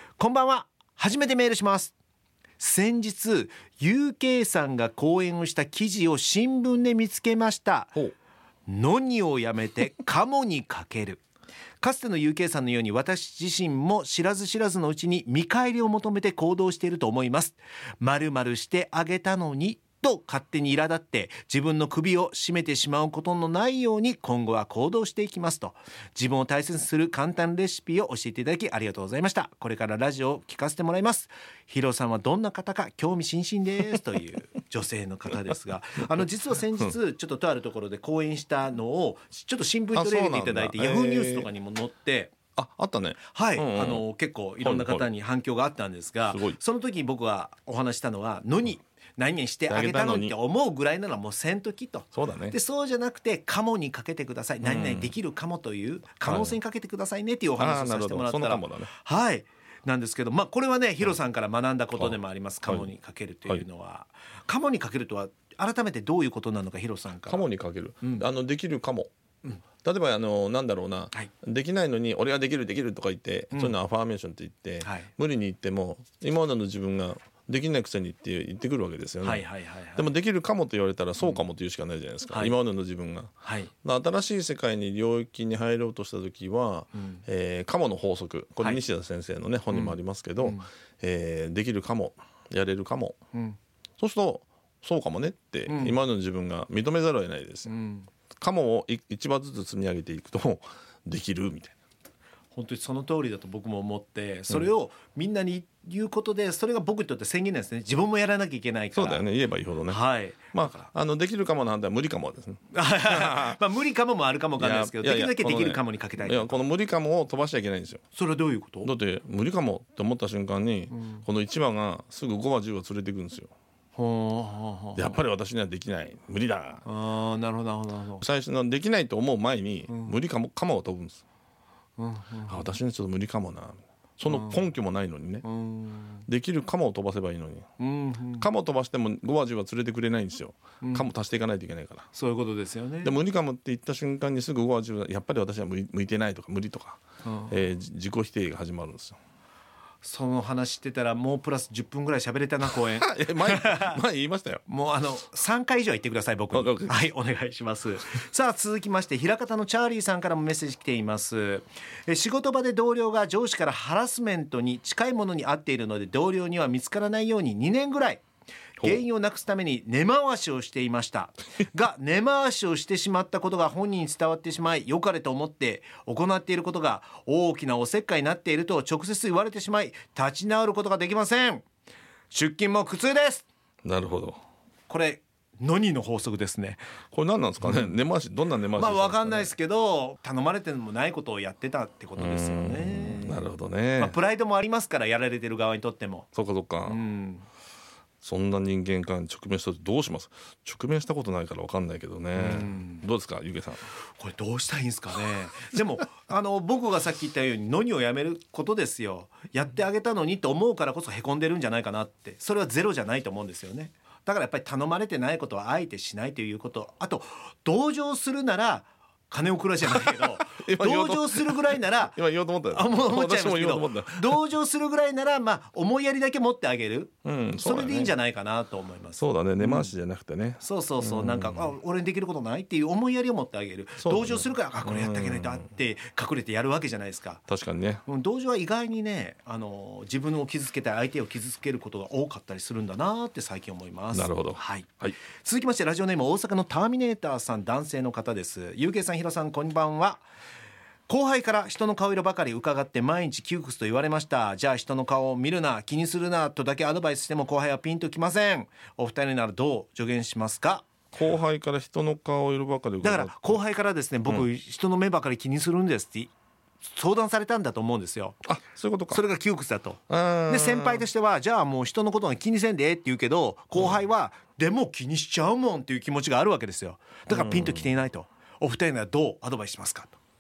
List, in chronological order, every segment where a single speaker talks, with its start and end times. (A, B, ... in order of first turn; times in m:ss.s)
0:00.2-0:01.9 A
0:02.6-0:08.0 A
0:08.7-0:11.2 A
0:11.8-0:42.4 A
0:39.9-0:41.5 B
0:42.6-0:44.0 B
0:43.3-1:07.5 A
0:44.6-0:45.1 B
0:46.3-0:46.6 B
0:49.7-0:50.3 B
0:52.1-0:52.6 B
0:54.6-0:55.1 B
0:56.2-0:56.6 B
0:57.6-0:58.9 B
1:07.2-1:09.1 B
1:09.8-1:19.4 B
1:14.8-1:15.1 A
1:19.2-1:20.1 A
1:20.0-1:23.3 B
1:22.3-1:22.5 A
1:23.4-1:23.7 A
1:23.8-1:33.2 B
1:26.9-1:27.2 A
1:29.7-1:30.7 A
1:34.0-1:37.7 B
1:35.7-1:36.0 A
1:37.6-1:38.1 A
1:38.4-1:41.7 B
1:42.5-1:49.3 A
1:48.9-1:53.6 B
1:49.9-1:50.9 A
1:52.7-1:56.6 A
1:54.6-1:58.0 B
1:58.1-1:58.9 A
1:58.8-2:03.5 B
2:00.9-2:01.2 A
2:04.0-2:05.2 A
2:05.0-2:06.8 B
2:06.8-2:08.2 A
2:08.2-2:11.2 B
2:09.9-2:10.2 A
2:12.0-2:12.7 A
2:12.5-2:15.4 B
2:14.3-2:14.7 A
2:15.4-2:16.2 A
2:16.2-2:17.7 B
2:17.8-2:18.5 A
2:18.4-2:22.1 B
2:20.8-2:21.1 A
2:22.1-2:23.1 A
2:23.0-2:29.2 B
2:27.2-2:27.5 A
2:30.0-2:34.0 A
2:32.7-2:34.6 B
2:34.7-2:48.2 A
2:36.5-2:37.1 B
2:48.8-3:01.6 A
3:02.3-3:03.4 A
3:03.8-3:04.4 B
3:04.9-3:06.8 A
3:07.1-3:09.5 B
3:07.6-3:07.9 A
3:08.7-3:13.4 A
3:12.2-3:14.2 B
3:14.0-3:16.3 A
3:16.3-3:17.0 B
3:16.9-3:17.4 A
3:18.2-3:23.8 B
3:22.3-3:23.0 A
3:24.2-3:42.2 A
3:40.0-3:44.4 B
3:42.7-3:49.9 A
3:47.2-3:48.1 B
3:49.2-3:51.7 B
3:50.6-3:57.4 A
3:54.0-3:55.6 B
3:57.5-3:58.0 B
3:58.0-4:10.2 A
4:04.1-4:05.2 B
4:11.1-4:20.8 A
4:21.1-4:23.6 B
4:23.0-4:26.3 A
4:26.8-4:28.4 A
4:28.4-4:29.2 B
4:29.1-4:40.2 A
4:30.1-4:31.0 B
4:37.3-4:37.9 B